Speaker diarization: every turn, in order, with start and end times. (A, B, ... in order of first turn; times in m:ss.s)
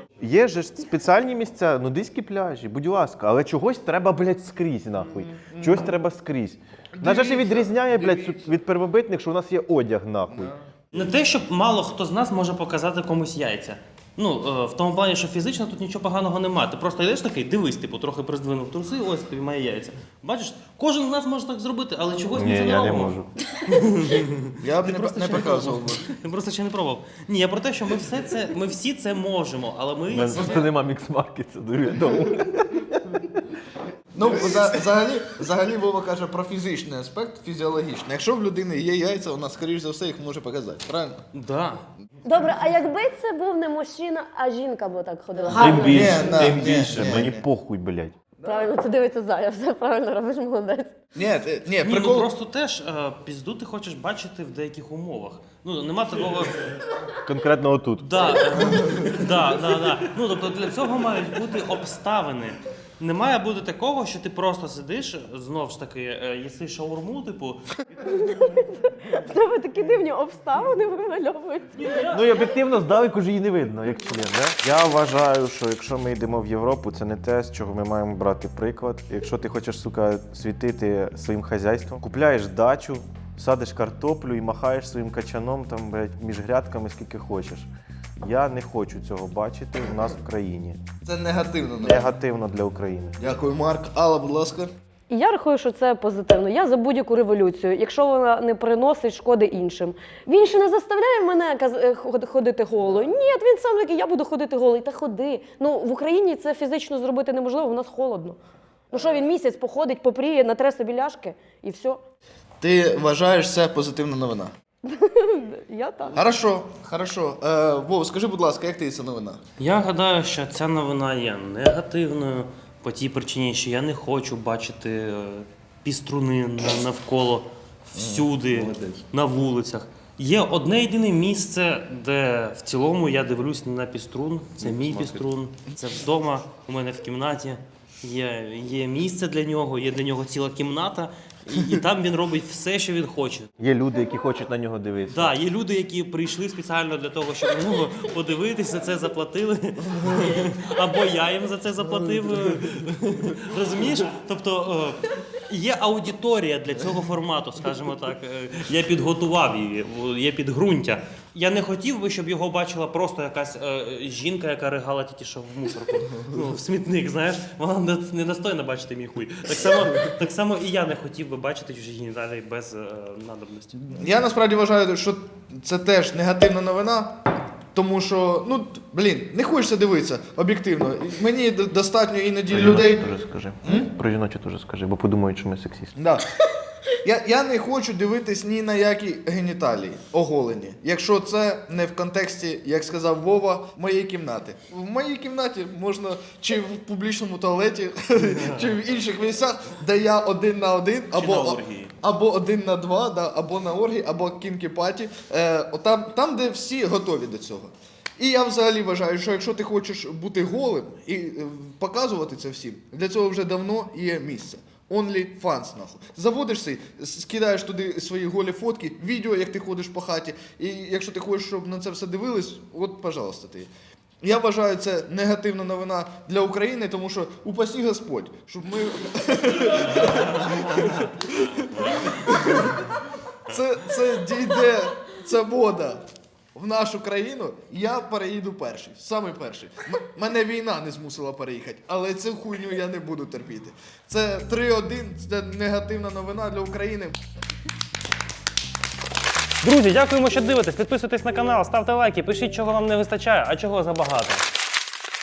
0:00.2-0:10.5 A
0:05.1-0:05.8 B
0:06.9-0:08.4 B
0:10.3-0:10.6 B
0:10.9-0:30.6 C
0:22.3-0:23.3 A
0:24.6-0:26.0 B
0:30.1-0:33.4 A
0:34.1-0:41.2 B
0:41.3-0:41.8 C
0:42.2-0:46.6 D
0:45.6-0:48.1 A
0:45.8-0:47.4 B
0:48.4-0:50.9 D
0:51.1-0:52.3 B
0:51.8-0:56.8 C
0:57.2-0:58.5 A
0:58.0-1:07.7 C
1:08.0-1:11.9 D
1:11.8-1:12.3 C
1:12.1-1:27.7 A
1:28.2-1:30.8 A
1:31.0-1:32.1 B
1:31.8-1:33.3 A
1:33.2-1:34.7 B
1:35.1-1:48.4 D
1:48.9-1:52.0 D
1:52.6-1:54.5 B
1:54.8-1:56.2 D
1:56.1-1:59.4 B
1:59.6-2:23.5 C
2:08.0-2:09.0 B
2:14.6-2:15.2 A
2:23.6-2:25.3 A
2:25.1-2:53.9 C
2:53.9-2:57.2 B
2:57.7-3:03.0 B
3:02.5-3:06.0 A
3:03.6-3:03.9 B
3:06.0-3:06.2 B
3:07.0-3:43.7 B
3:18.2-3:18.7 C
3:21.1-3:21.9 C
3:44.2-3:52.9 B
3:53.5-3:56.0 B
3:56.5-4:07.2 B
4:09.6-4:14.5 C